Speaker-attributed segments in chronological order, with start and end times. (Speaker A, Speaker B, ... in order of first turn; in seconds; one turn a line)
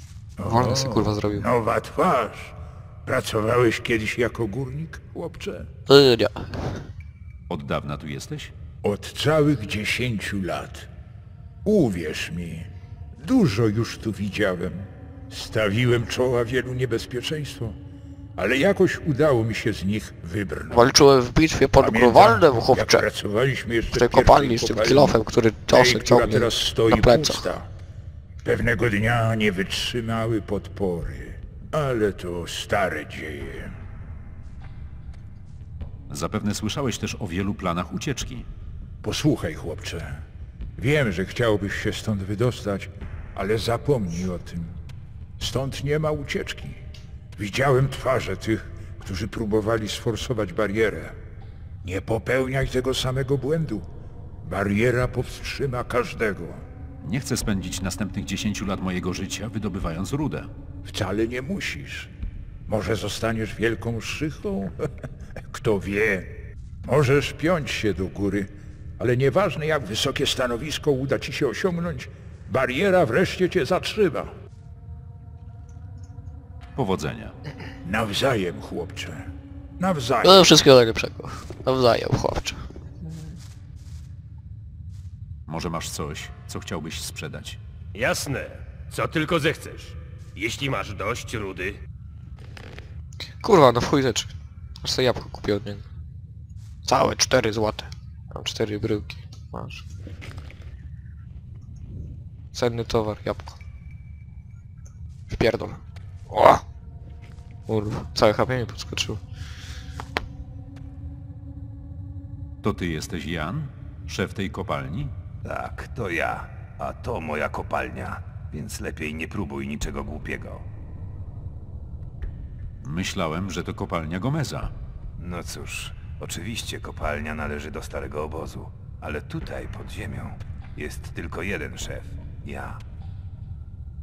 Speaker A: 0.4-5.7
Speaker B: 0.4-1.5
Speaker B: 5.9-6.7
Speaker C: 7.5-8.5
Speaker A: 8.8-10.9
Speaker A: 11.7-17.8
Speaker A: 18.4-20.9
Speaker B: 20.7-23.1
Speaker A: 21.8-27.7
Speaker B: 23.9-27.5
Speaker A: 28.4-33.7
Speaker C: 36.1-38.5
Speaker A: 39.0-40.2
Speaker A: 40.8-44.8
Speaker A: 45.4-46.8
Speaker A: 47.4-51.2
Speaker A: 51.8-53.9
Speaker A: 54.4-56.6
Speaker C: 57.0-60.5
Speaker A: 60.9-62.1
Speaker A: 62.7-64.9
Speaker A: 65.5-74.3
Speaker C: 76.8-77.3
Speaker A: 77.8-80.6
Speaker B: 80.2-83.3
Speaker C: 85.5-87.6
Speaker D: 87.9-91.8
Speaker B: 93.4-95.9
Speaker B: 96.9-99.9
Speaker B: 102.5-103.6
Speaker B: 105.3-106.6
Speaker B: 107.7-109.2
Speaker C: 112.6-115.1
Speaker E: 115.4-120.7
Speaker C: 122.8-124.7
Speaker E: 125.2-132.8